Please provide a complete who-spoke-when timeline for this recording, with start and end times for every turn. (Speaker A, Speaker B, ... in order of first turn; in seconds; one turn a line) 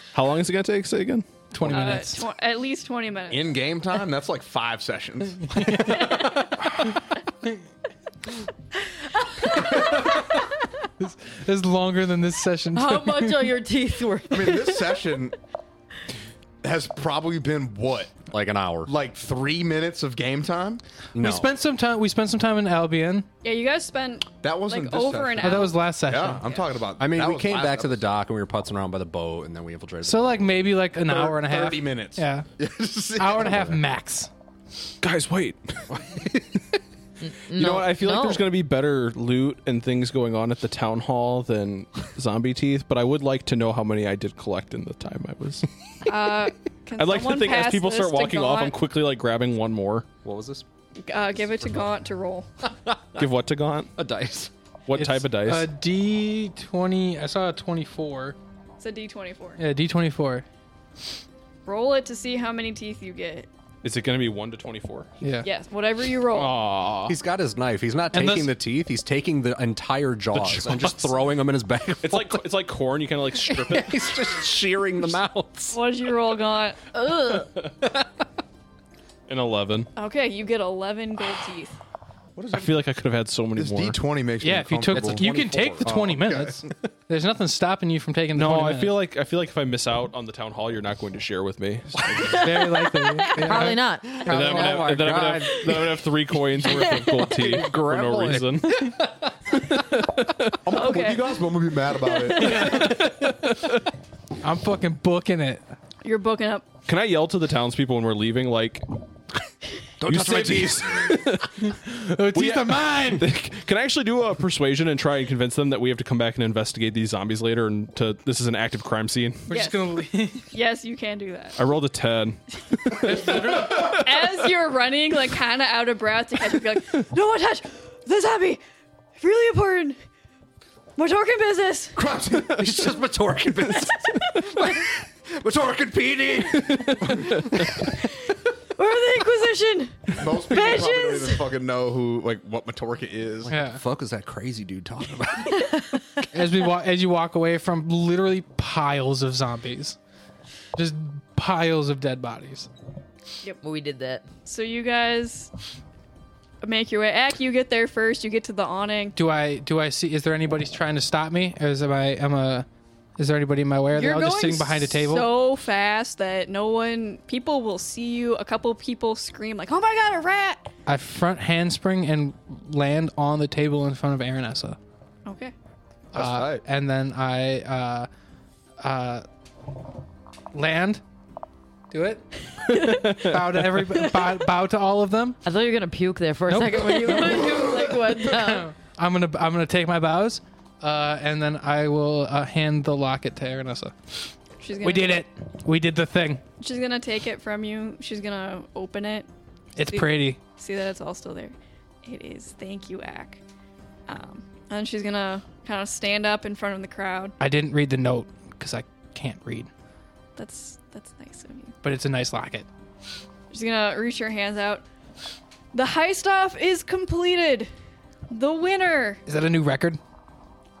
Speaker A: 0.1-1.3
Speaker B: 1.5-2.3
Speaker C: 1.6-3.5
Speaker D: 3.3-6.4
Speaker B: 5.5-6.1
Speaker C: 6.0-6.5
Speaker B: 11.0-13.5
Speaker E: 12.7-14.9
Speaker D: 14.3-15.3
Speaker D: 16.6-18.3
Speaker F: 18.3-18.9
Speaker D: 18.9-20.8
Speaker F: 21.1-21.5
Speaker B: 21.1-23.3
Speaker C: 23.4-25.8
Speaker D: 24.4-28.1
Speaker B: 25.4-26.4
Speaker F: 27.0-30.4
Speaker B: 30.0-32.5
Speaker D: 31.0-33.6
Speaker B: 33.1-34.3
Speaker F: 33.4-33.8
Speaker A: 35.0-36.3
Speaker F: 35.9-36.2
Speaker E: 37.2-38.4
Speaker A: 37.5-45.7
Speaker C: 46.0-48.7
Speaker A: 47.0-50.1
Speaker F: 50.2-50.6
Speaker C: 51.0-52.5
Speaker F: 52.8-53.3
Speaker A: 53.2-53.9
Speaker F: 54.0-54.5
Speaker A: 54.9-55.7
Speaker B: 54.9-58.4
Speaker C: 58.8-59.6
Speaker B: 59.6-60.4
Speaker C: 61.6-63.5
Speaker A: 63.8-65.1
Speaker B: 65.2-65.5
Speaker C: 65.4-66.5
Speaker A: 66.3-67.2
Speaker F: 67.1-72.5
Speaker B: 68.1-68.6
Speaker A: 70.3-71.1
Speaker A: 72.0-74.0
Speaker F: 73.5-75.8
Speaker C: 75.7-76.8
Speaker E: 77.0-77.5
Speaker F: 77.8-78.0
Speaker A: 79.3-79.9
Speaker C: 80.0-81.8
Speaker D: 82.3-82.7
Speaker A: 82.5-84.0
Speaker D: 83.5-85.3
Speaker B: 84.4-89.0
Speaker F: 84.9-86.0
Speaker D: 85.8-86.7
Speaker A: 88.3-92.6
Speaker B: 92.2-93.8
Speaker E: 93.3-94.6
Speaker F: 93.8-99.3
Speaker A: 94.2-100.6
Speaker D: 100.6-102.8
Speaker C: 100.7-101.4
Speaker C: 102.1-102.9
Speaker B: 102.3-103.3
Speaker A: 102.4-103.8
Speaker B: 104.4-105.7
Speaker C: 106.0-106.7
Speaker A: 106.8-108.8
Speaker F: 110.0-111.3
Speaker A: 110.0-111.8
Speaker B: 111.6-113.2
Speaker A: 112.3-119.5
Speaker C: 119.5-119.9
Speaker B: 119.5-120.5
Speaker C: 120.5-121.6
Speaker A: 121.6-124.3
Speaker B: 123.0-124.0
Speaker C: 123.3-128.6
Speaker C: 129.2-130.0
Speaker C: 130.9-132.0
Speaker D: 131.9-132.7
Speaker F: 132.5-137.9
Speaker C: 134.0-134.5
Speaker A: 136.7-137.6
Speaker C: 138.8-141.5
Speaker D: 140.2-143.6
Speaker F: 143.5-146.0
Speaker B: 143.5-143.8
Speaker B: 146.3-150.0
Speaker B: 150.7-152.7
Speaker E: 153.6-154.3
Speaker C: 154.4-155.5
Speaker C: 156.6-159.2
Speaker B: 159.1-162.7
Speaker B: 163.2-165.4
Speaker C: 163.9-170.7
Speaker B: 170.8-174.8
Speaker C: 175.2-175.5
Speaker B: 176.1-178.1
Speaker D: 176.1-176.6
Speaker B: 178.8-179.2
Speaker B: 180.5-181.0
Speaker B: 181.9-185.4
Speaker A: 182.7-183.5
Speaker E: 185.4-188.7
Speaker B: 186.5-194.2
Speaker C: 194.6-195.2
Speaker B: 194.8-196.4
Speaker C: 196.6-199.3
Speaker B: 199.8-200.4
Speaker C: 199.8-203.4
Speaker C: 204.1-207.3
Speaker B: 207.4-209.7
Speaker C: 210.3-211.7
Speaker B: 211.8-212.7
Speaker C: 213.5-214.8
Speaker C: 215.7-217.7
Speaker C: 218.3-219.2
Speaker B: 219.2-220.0